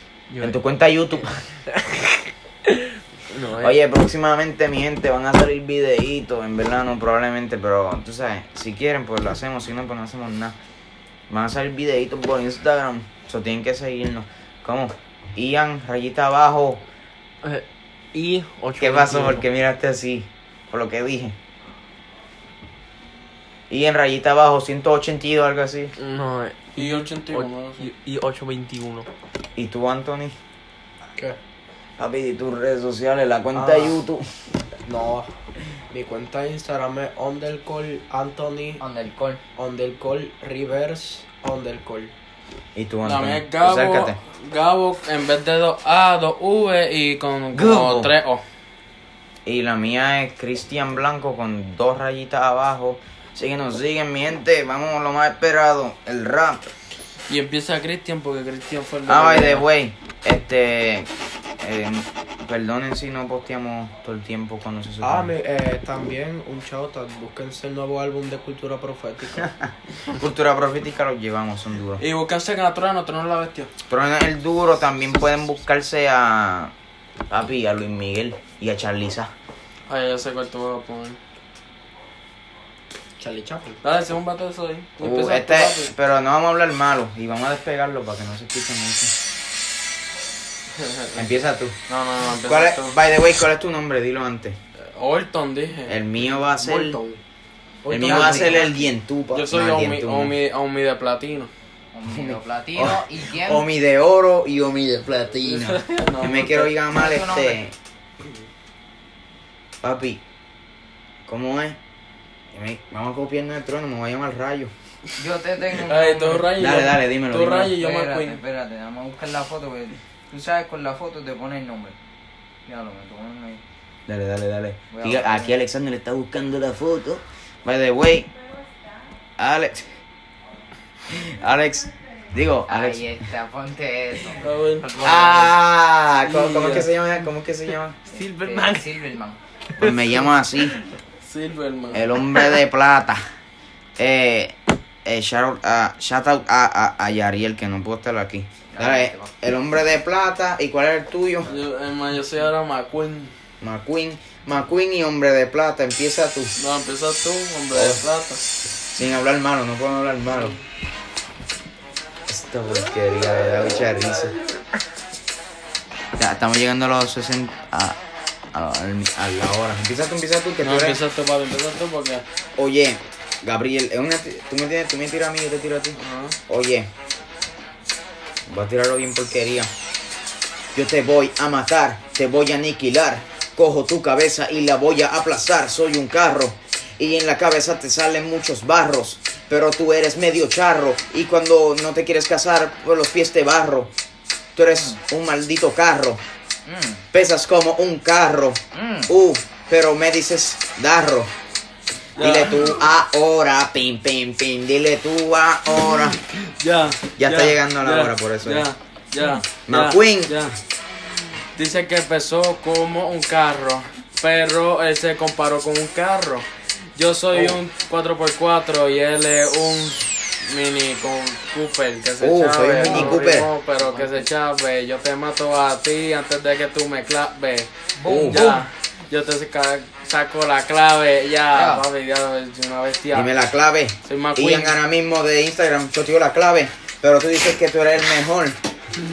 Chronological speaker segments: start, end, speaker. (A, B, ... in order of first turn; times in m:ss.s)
0:00.3-0:00.6 A
0:00.4-0:01.4 B
0:01.7-0:03.8 A
0:03.5-0:10.5 B
0:11.3-0:16.8 B
0:17.4-0:19.4 A
0:18.8-0:21.4 B
0:23.7-0:25.9 B
0:26.0-0:29.1 A
0:26.8-0:27.9 C
0:29.6-0:30.4 B
0:32.0-0:34.2 B
0:33.5-0:33.9 D
0:34.8-0:35.3 D
0:35.9-0:38.8 D
0:38.8-0:39.4 E
0:39.6-0:42.1 D
0:42.7-0:44.2 B
0:43.0-0:48.4 C
0:47.5-0:48.1 B
0:49.4-0:56.6 B
0:57.3-0:59.7 C
0:59.1-1:01.1 B
1:01.6-1:05.3 B
1:05.0-1:09.5 D
1:09.4-1:12.0 B
1:12.0-1:13.7 C
1:13.9-1:16.7 B
1:17.3-1:19.3 B
1:19.9-1:21.2 C
1:23.2-1:23.8 D
1:23.8-1:25.9 C
1:25.0-1:29.1 B
1:30.7-1:33.0 C
1:31.2-1:31.7 B
1:32.4-1:34.6 B
1:34.8-1:36.0 C
1:35.9-1:37.0 B
1:36.5-1:37.2 D
1:37.8-1:38.7 D
1:37.9-1:40.3 B
1:38.1-1:38.6 C
1:39.3-1:41.5 C
1:41.9-1:43.6 E
1:42.1-1:47.7 B
1:45.4-1:46.7 C
1:46.9-1:47.6 E
1:49.8-1:50.2 B
1:51.2-1:51.8 B
1:52.5-1:54.7 B
1:55.2-1:56.5 E
1:55.8-1:58.4 C
1:56.6-1:57.8 B
1:57.7-2:02.0 E
2:02.6-2:03.6 E
2:04.1-2:08.3 B
2:04.9-2:05.5 E
2:09.4-2:10.0 B
2:11.1-2:13.1 B
2:12.7-2:14.5 E
2:14.4-2:15.5 C
2:15.0-2:18.0 B
2:16.3-2:16.8 C
2:18.1-2:19.0 A
2:18.1-2:19.4 E
2:19.8-2:20.8 B
2:19.8-2:20.8 A
2:21.2-2:22.0 C
2:21.9-2:23.2 B
2:24.0-2:31.5 B
2:28.7-2:29.3 E
2:31.4-2:33.3 C
2:33.6-2:36.5 B
2:36.6-2:38.4 C
2:37.7-2:38.0 B
2:38.9-2:40.6 B
2:40.3-2:40.6 C
2:42.3-2:44.3 B
2:46.2-2:48.0 B
2:48.5-2:51.0 B
2:50.6-2:52.2 C
2:52.6-2:56.9 B
2:56.0-2:56.4 C
2:58.5-2:59.7 B
3:00.7-3:13.9 B
3:14.5-3:16.2 B
3:16.6-3:17.0 E
3:17.1-3:21.3 B
3:18.7-3:19.1 E
3:22.2-3:22.8 C
3:22.2-3:26.2 B
3:26.3-3:30.6 C
3:27.2-3:28.7 B
3:29.6-3:30.4 B
3:31.6-3:53.3 C
3:37.3-3:37.6 B
3:42.2-3:43.5 B
3:42.7-3:43.2 E
3:43.8-3:44.3 E
3:48.0-3:48.6 E
3:48.0-3:48.5 B
3:51.5-3:51.8 E
3:53.1-3:58.6 B
3:54.0-3:54.7 C